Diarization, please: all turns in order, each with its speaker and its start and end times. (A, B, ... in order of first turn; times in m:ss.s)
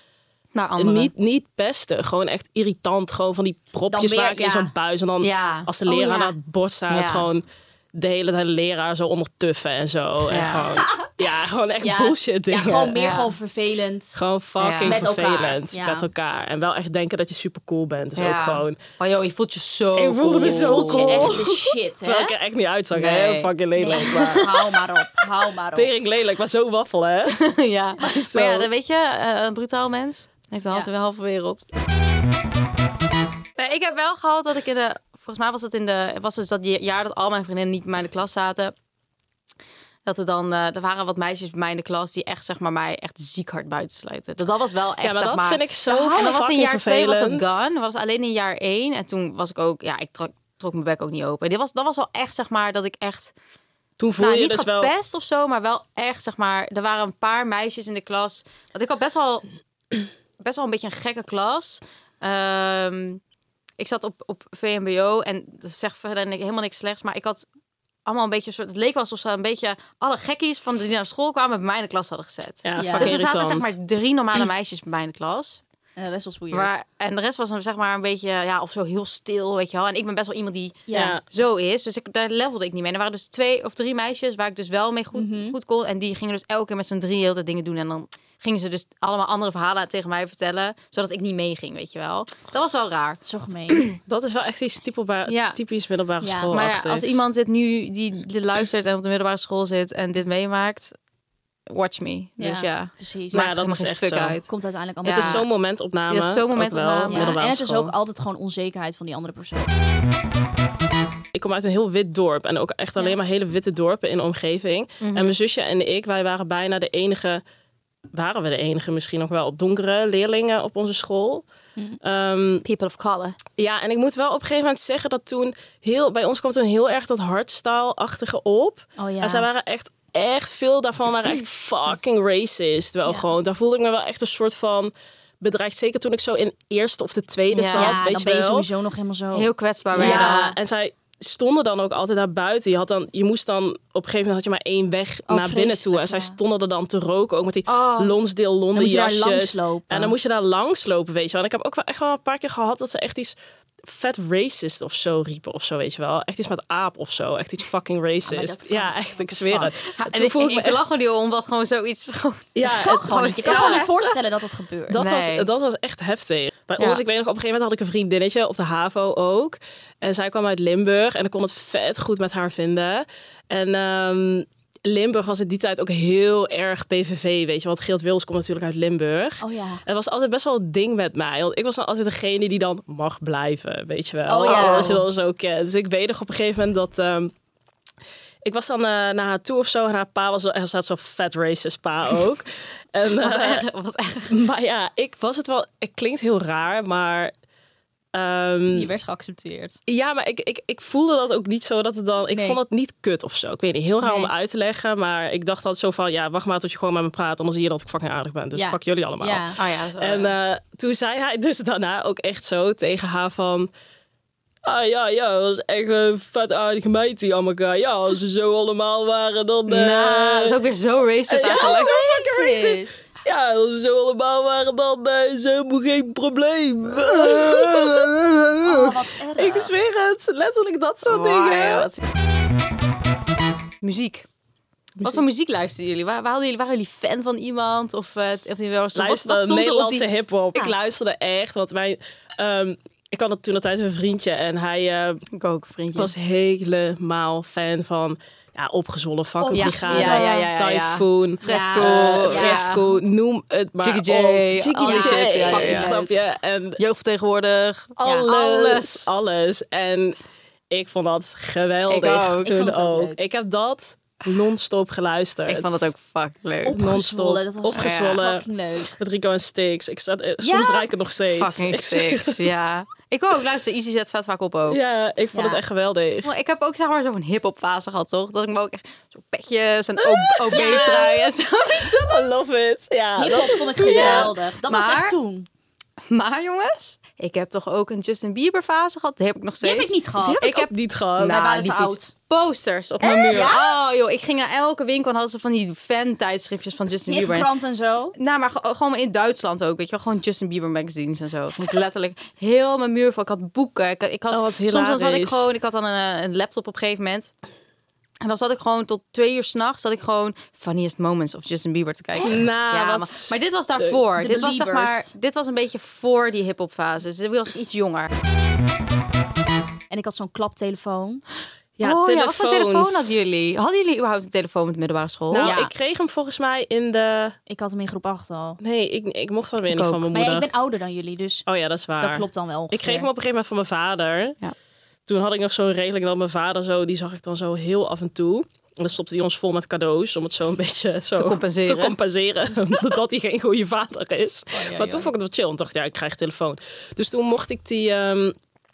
0:00.6-0:01.1 A
0:00.8-0:07.4 B
0:03.9-0:04.7 C
0:05.2-0:05.7 A
0:05.9-0:06.3 C
0:06.9-0:07.3 A
0:08.0-0:13.0 B
0:10.3-0:10.7 A
0:11.8-0:14.2 C
0:13.0-0:13.3 A
0:14.2-0:18.8 B
0:14.6-0:15.1 A
0:14.8-0:16.1 C
0:18.2-0:21.4 A
0:20.0-0:24.5 B
0:20.4-0:22.3 C
0:22.9-0:24.6 A
0:23.8-0:25.9 C
0:25.8-0:27.4 B
0:27.3-0:31.7 A
0:28.0-0:28.7 B
0:33.6-0:38.8 A
0:40.0-0:53.3 A
0:45.0-0:47.6 B
0:45.9-0:46.3 C
0:54.0-0:54.9 B
0:54.2-0:59.5 A
1:00.4-1:03.2 A
1:03.8-1:07.5 A
1:08.1-1:15.6 A
1:12.6-1:13.7 B
1:12.8-1:13.2 C
1:16.0-1:16.7 C
1:16.5-1:34.0 A
1:20.9-1:21.2 C
1:20.9-1:21.2 B
1:25.1-1:25.6 C
1:33.2-1:33.8 C
1:34.1-1:37.2 B
1:35.3-1:35.6 A
1:36.2-1:36.6 C
1:36.5-1:40.9 A
1:41.7-1:44.5 A
1:42.4-1:43.5 C
1:43.3-1:44.4 B
1:44.5-1:45.4 C
1:45.0-1:45.4 A
1:45.1-1:47.9 B
1:46.1-1:47.4 A
1:47.1-1:49.7 C
1:51.3-1:57.4 B
1:55.0-1:55.4 A
1:58.1-2:01.4 B
2:02.0-2:02.6 B
2:02.6-2:03.4 A
2:03.6-2:18.7 B
2:09.0-2:09.5 C
2:17.5-2:18.0 A
2:17.7-2:20.6 C
2:19.3-2:20.6 A
2:19.9-2:40.8 B
2:25.3-2:26.4 C
2:27.7-2:28.1 A
2:28.8-2:30.2 C
2:38.3-2:39.7 C
2:39.8-2:43.9 A
2:42.6-2:43.9 B
2:42.6-2:45.0 C
2:44.9-3:07.3 B
2:45.0-2:45.5 A
2:59.4-2:59.8 C
3:04.3-3:05.0 C
3:04.4-3:05.0 A
3:08.4-3:13.6 B
3:13.2-3:14.3 A
3:14.3-3:17.3 B
3:18.1-3:18.9 B
3:18.7-3:19.8 C
3:19.9-3:33.7 B
3:22.3-3:22.6 C
3:24.0-3:24.3 C
3:28.5-3:29.6 C
3:29.6-3:30.3 A
3:34.6-3:40.6 B
3:39.7-3:41.9 A
3:41.3-3:51.9 B
3:41.3-3:42.9 C
3:47.1-3:48.1 A
3:48.6-3:49.7 C
3:51.1-3:52.0 A
3:53.8-3:54.3 A
3:55.0-4:00.1 A
3:59.0-4:05.2 B
4:05.3-4:06.1 A
4:06.0-4:16.8 B
4:09.4-4:10.5 C
4:09.5-4:12.8 A
4:11.4-4:12.9 C
4:13.8-4:16.0 A
4:14.8-4:16.1 C
4:16.8-4:19.1 A
4:18.0-4:20.2 B
4:18.0-4:18.3 C
4:20.7-4:25.9 B
4:21.9-4:22.5 A
4:22.4-4:23.2 C
4:25.5-4:26.8 A
4:26.6-4:28.9 C
4:26.7-4:32.6 B
4:27.7-4:28.2 A
4:30.4-4:30.9 C
4:31.3-4:34.8 A
4:34.7-4:36.3 B
4:35.3-4:35.6 C
4:36.2-4:42.3 A
4:40.1-4:41.2 B
4:40.5-4:41.3 C
4:41.8-4:44.3 B
4:43.2-4:45.5 C
4:43.8-4:45.2 A
4:46.1-4:57.5 A
4:49.6-4:50.4 C
4:50.2-4:51.5 B
4:51.2-4:52.1 C
4:53.0-4:53.6 B
4:53.3-4:53.8 C
4:57.1-4:58.2 C
4:58.2-5:07.3 A
5:04.3-5:05.5 B
5:08.2-5:18.1 A
5:12.2-5:14.0 B
5:14.2-5:15.1 C
5:19.9-5:21.2 C
5:21.8-5:23.2 B
5:21.8-5:25.5 A
5:25.3-5:27.4 B
5:25.4-5:25.7 C
5:27.5-5:28.6 C
5:28.6-5:30.5 B
5:29.7-5:30.0 A
5:30.1-5:31.4 C
5:31.5-5:34.4 B
5:32.0-5:33.1 C
5:35.1-5:48.4 B
5:41.2-5:42.0 A
5:44.6-5:45.1 A